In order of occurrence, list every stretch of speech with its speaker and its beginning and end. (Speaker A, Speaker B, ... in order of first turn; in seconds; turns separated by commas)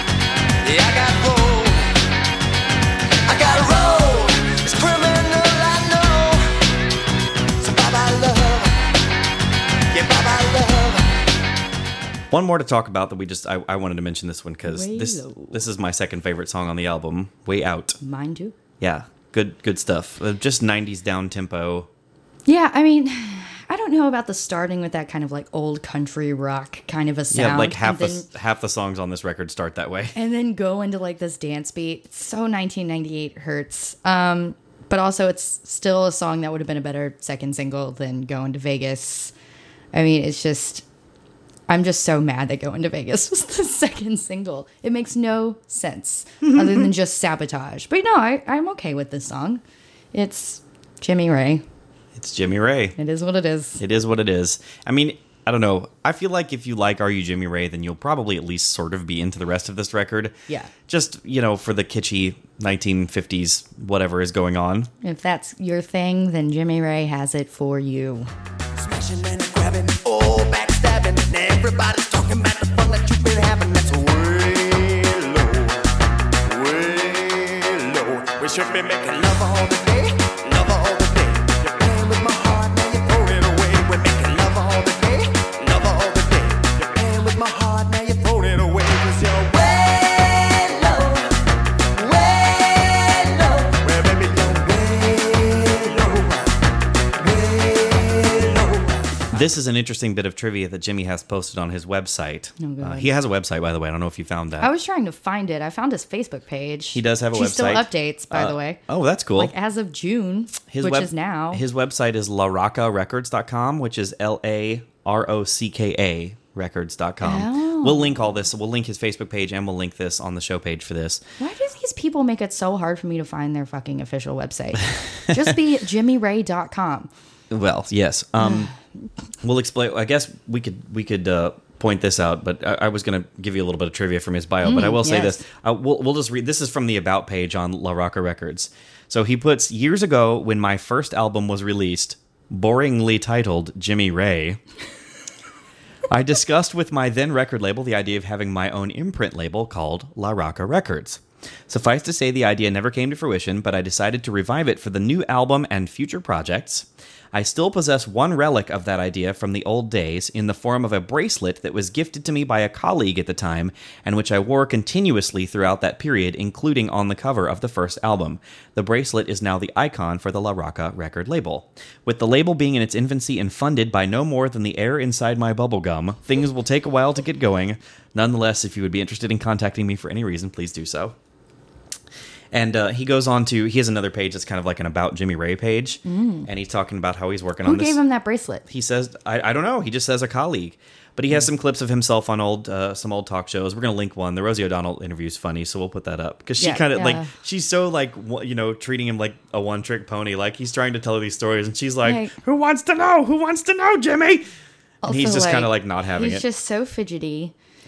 Speaker A: 0.6-2.0, Speaker A: 3.2-6.5, Speaker A: 7.6-8.8, Speaker A: 9.9-11.1, Speaker B: 12.3-18.0, Speaker C: 14.7-15.6, Speaker C: 18.0-18.6, Speaker B: 18.8-21.9, Speaker C: 22.4-28.3, Speaker B: 27.3-30.1, Speaker C: 30.1-39.3, Speaker C: 39.9-40.8, Speaker C: 41.7-49.6, Speaker C: 50.1-51.6, Speaker B: 52.1-53.0, Speaker C: 53.0-53.8, Speaker B: 53.8-60.3, Speaker B: 60.9-64.9, Speaker C: 65.0-68.3, Speaker A: 68.8-75.8, Speaker A: 76.5-91.3, Speaker A: 91.9-96.5, Speaker A: 97.2-99.2, Speaker B: 99.3-104.7, Speaker C: 102.6-103.1, Speaker C: 104.6-108.8, Speaker B: 106.9-109.5, Speaker C: 109.3-111.6, Speaker B: 110.7-121.2, Speaker C: 117.2-118.2, Speaker C: 121.4-127.1, Speaker B: 127.5-128.7, Speaker C: 128.4-128.7, Speaker B: 129.4-144.6, Speaker C: 134.6-135.4, Speaker B: 146.1-181.1, Speaker B: 182.5-188.0, Speaker C: 186.0-186.5, Speaker C: 187.6-188.6, Speaker B: 188.7-204.4, Speaker C: 196.6-197.3, Speaker C: 202.0-202.3, Speaker C: 205.0-207.5, Speaker B: 205.1-206.4